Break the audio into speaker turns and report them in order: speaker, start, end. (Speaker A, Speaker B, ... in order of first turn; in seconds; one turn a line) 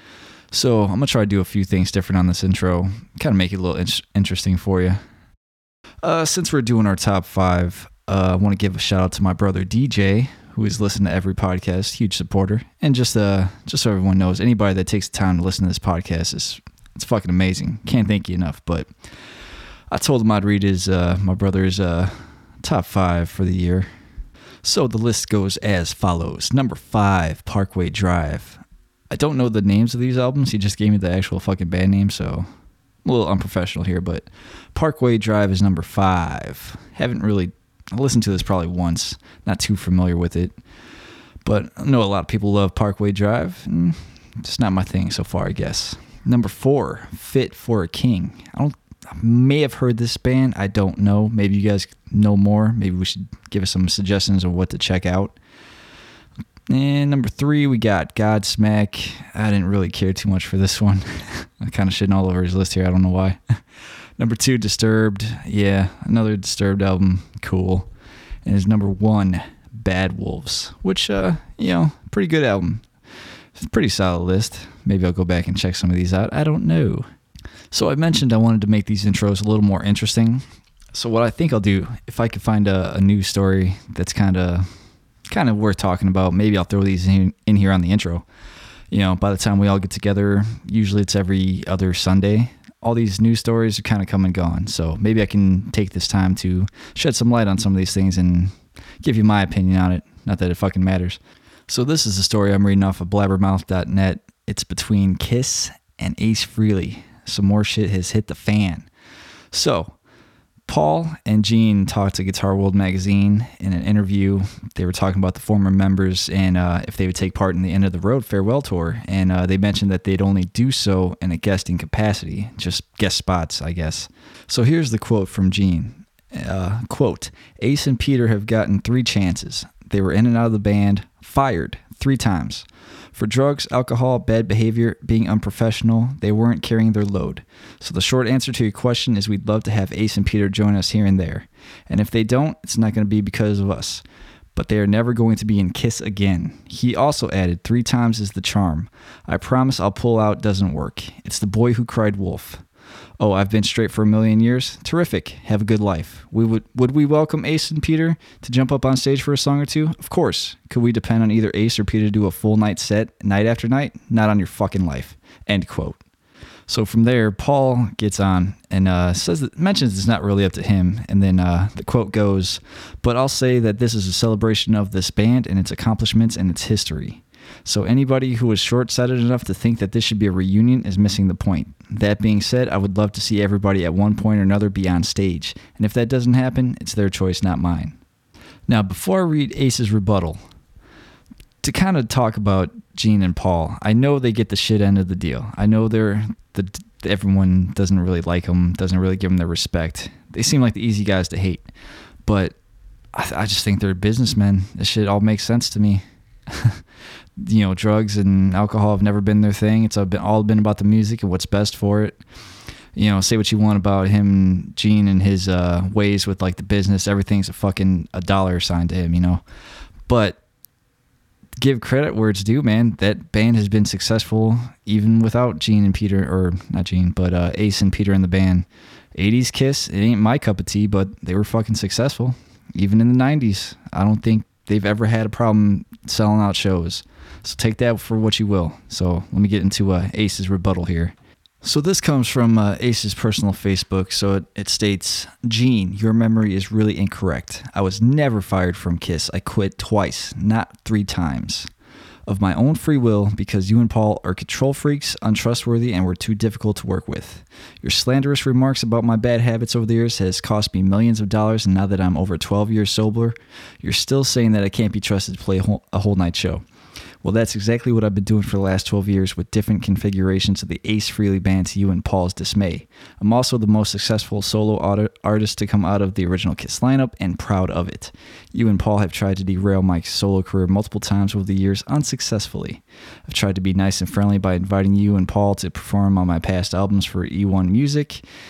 Speaker A: 0.5-5.0
Speaker A: 6.0-18.9
Speaker A: 19.9-23.9
Speaker A: 24.6-32.5
Speaker A: 33.0-40.6
Speaker A: 41.4-55.4
Speaker A: 56.7-63.6
Speaker A: 64.2-67.9
Speaker A: 68.4-72.8
Speaker A: 73.5-77.1
Speaker A: 77.7-84.7
Speaker A: 85.3-88.2
Speaker A: 88.9-108.9
Speaker A: 109.5-110.0
Speaker A: 110.7-144.0
Speaker A: 144.5-152.6
Speaker A: 153.2-166.0
Speaker A: 166.7-188.0
Speaker A: 188.7-190.4
Speaker A: 191.6-201.7
Speaker A: 202.2-202.5
Speaker A: 203.1-206.8
Speaker A: 207.4-212.2
Speaker A: 212.9-219.4
Speaker A: 220.1-220.4
Speaker A: 221.6-251.7
Speaker A: 252.3-266.6
Speaker A: 267.2-288.2